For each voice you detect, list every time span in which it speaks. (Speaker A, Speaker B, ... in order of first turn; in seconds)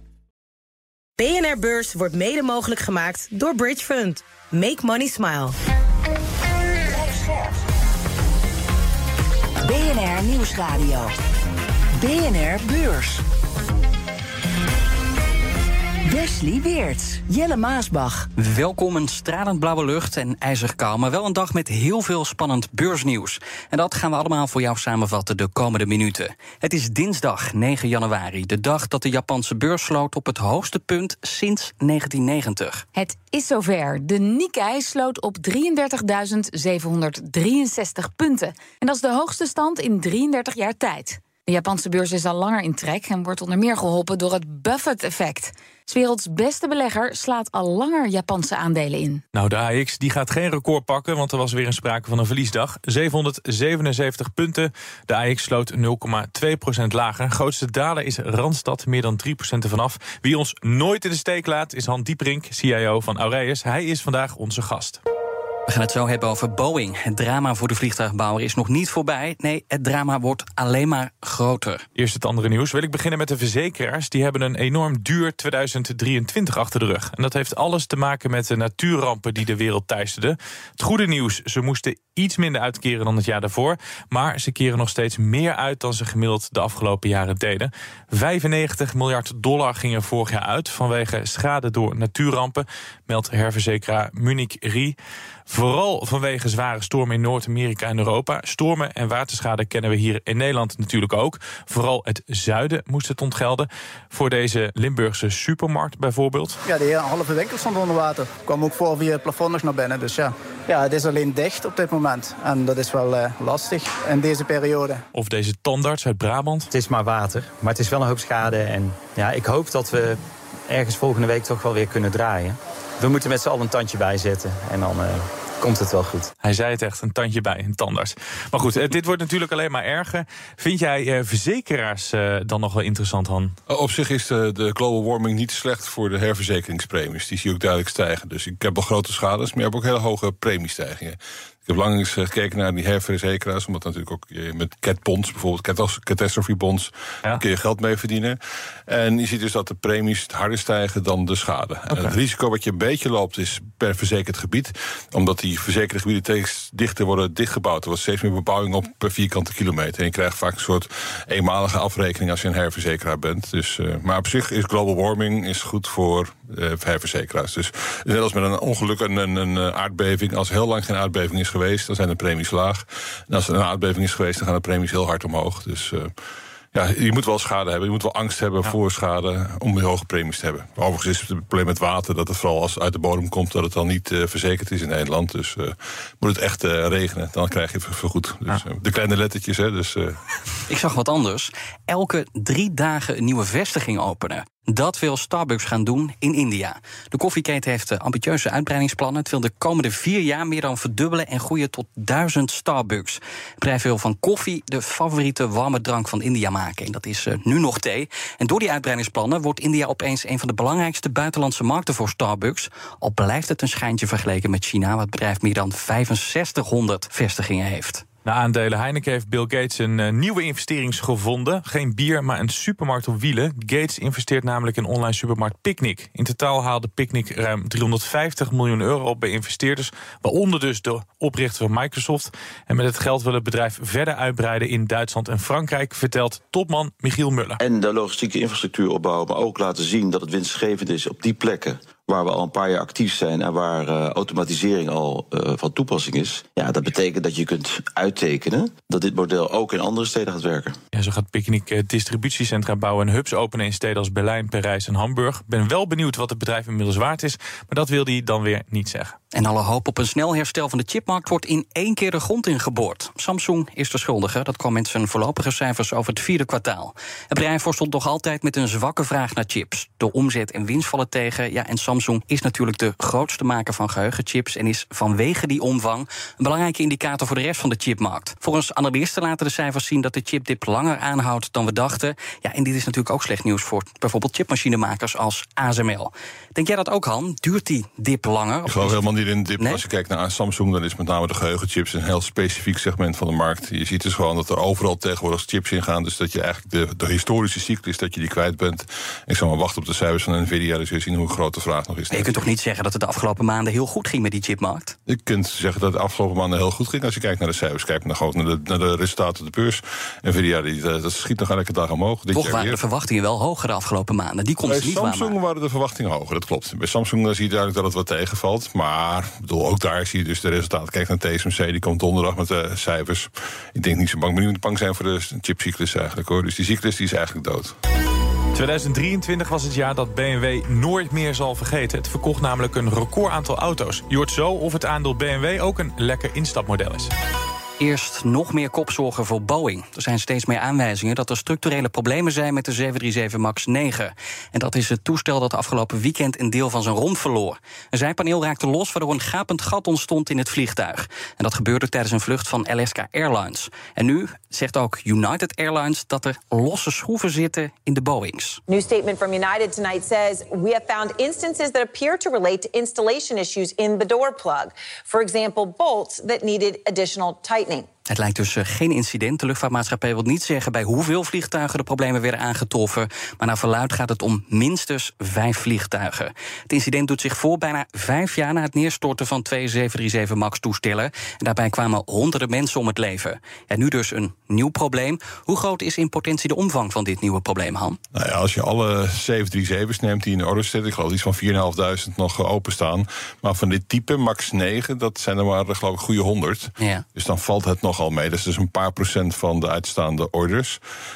Speaker A: 1.2-5.5
Speaker B: 6.9-7.5, 9.6-11.1, 12.0-13.2, 16.0-18.3
Speaker C: 18.4-32.8, 65.7-71.8, 190.7-218.0, 259.3-289.0, 302.1-304.9, 312.3-315.4, 337.8-358.6, 368.1-388.0, 396.8-397.1
Speaker D: 32.9-49.2
Speaker E: 49.3-65.0, 72.0-95.0, 95.5-106.6, 115.1-116.7, 126.4-133.6, 218.2-237.6, 250.9-259.1, 328.5-337.1
Speaker F: 106.7-115.0
Speaker G: 116.7-126.3
Speaker H: 133.7-176.1, 176.7-190.2, 288.7-302.5, 305.1-312.8, 314.6-327.8, 388.1-400.8
Speaker I: 237.6-250.8
Speaker J: 358.7-367.9